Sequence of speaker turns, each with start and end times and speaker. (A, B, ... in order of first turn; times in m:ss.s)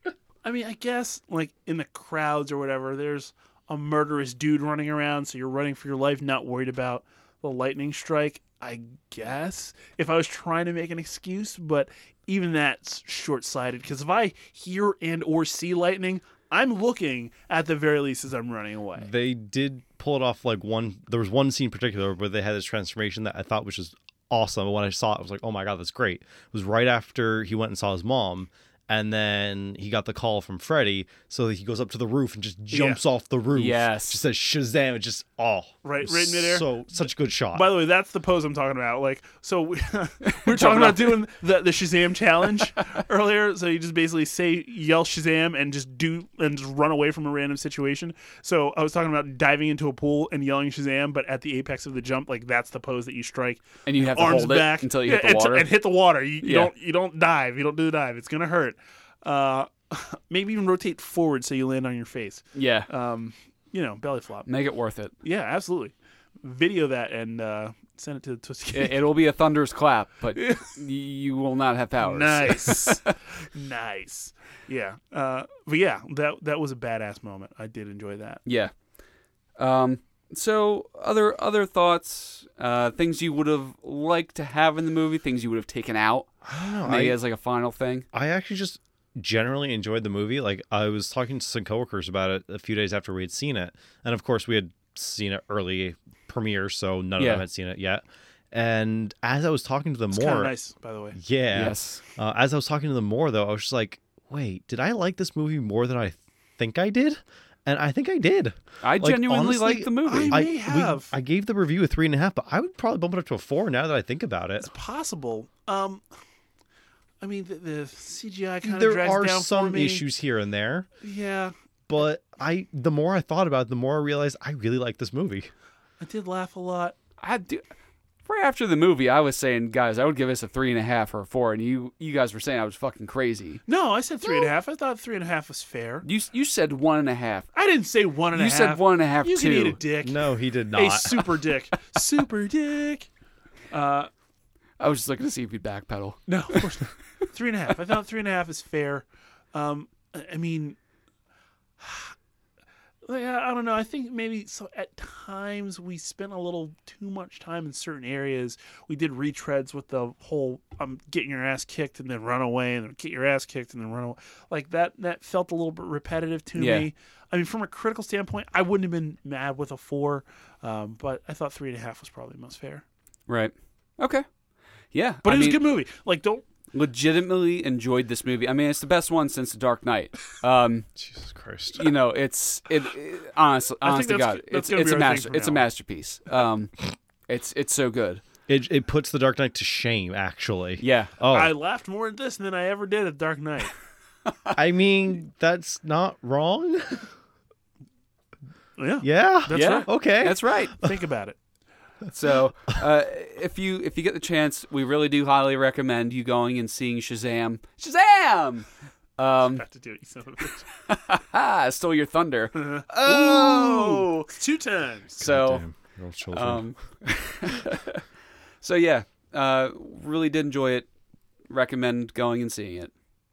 0:00.4-0:19.1 A
0:19.0-0:37.7 B
0:32.7-0:33.0 A
0:33.5-0:34.2 C
0:35.8-0:36.7 A
0:37.5-1:04.5 A
0:40.4-0:41.2 C
0:53.8-0:55.7 C
0:56.4-0:56.7 C
1:02.5-1:02.9 C
1:04.5-1:05.1 C
1:05.2-1:09.1 A
1:08.7-1:13.2 C
1:10.4-1:10.7 A
1:12.0-1:18.4 A
1:18.4-1:18.7 C
1:19.6-1:28.0 C
1:26.5-1:27.2 B
1:28.1-1:38.0 B
1:37.2-1:37.4 C
1:38.5-1:40.5 B
1:40.1-1:41.2 A
1:41.1-1:54.7 B
1:41.5-1:42.0 C
1:48.8-1:50.4 C
1:50.0-1:51.1 A
1:54.6-1:56.0 A
1:57.2-2:00.0 A
1:58.6-2:00.9 B
2:01.0-2:01.5 A
2:01.9-2:05.5 B
2:06.0-2:07.0 A
2:07.2-2:07.6 C
2:08.2-2:13.6 C
2:13.6-2:16.0 A
2:16.0-2:17.5 C
2:17.5-2:23.1 A
2:18.3-2:19.8 C
2:20.0-2:21.3 B
2:23.7-2:24.1 A
2:24.8-2:26.7 C
2:26.3-2:30.8 A
2:31.8-2:32.1 A
2:33.0-2:52.8 A
2:46.6-2:46.9 C
2:53.3-2:54.2 C
2:54.9-2:55.7 C
2:55.2-2:56.4 A
2:56.7-3:00.9 C
3:01.0-3:01.9 B
3:01.7-3:08.2 C
3:03.8-3:05.6 A
3:08.5-3:11.5 B
3:10.8-3:11.1 C
3:11.3-3:13.7 A
3:14.3-3:14.5 C
3:14.5-3:17.1 B
3:18.8-3:19.9 A
3:19.0-3:20.7 B
3:19.5-3:20.8 C
3:20.8-3:21.4 A
3:22.1-3:29.6 C
3:29.5-3:30.7 A
3:30.7-3:34.1 C
3:32.6-3:35.2 A
3:33.0-3:33.9 B
3:35.2-3:35.6 C
3:35.2-3:36.6 B
3:36.3-3:38.0 C
3:38.6-3:40.9 C
3:41.5-3:42.9 C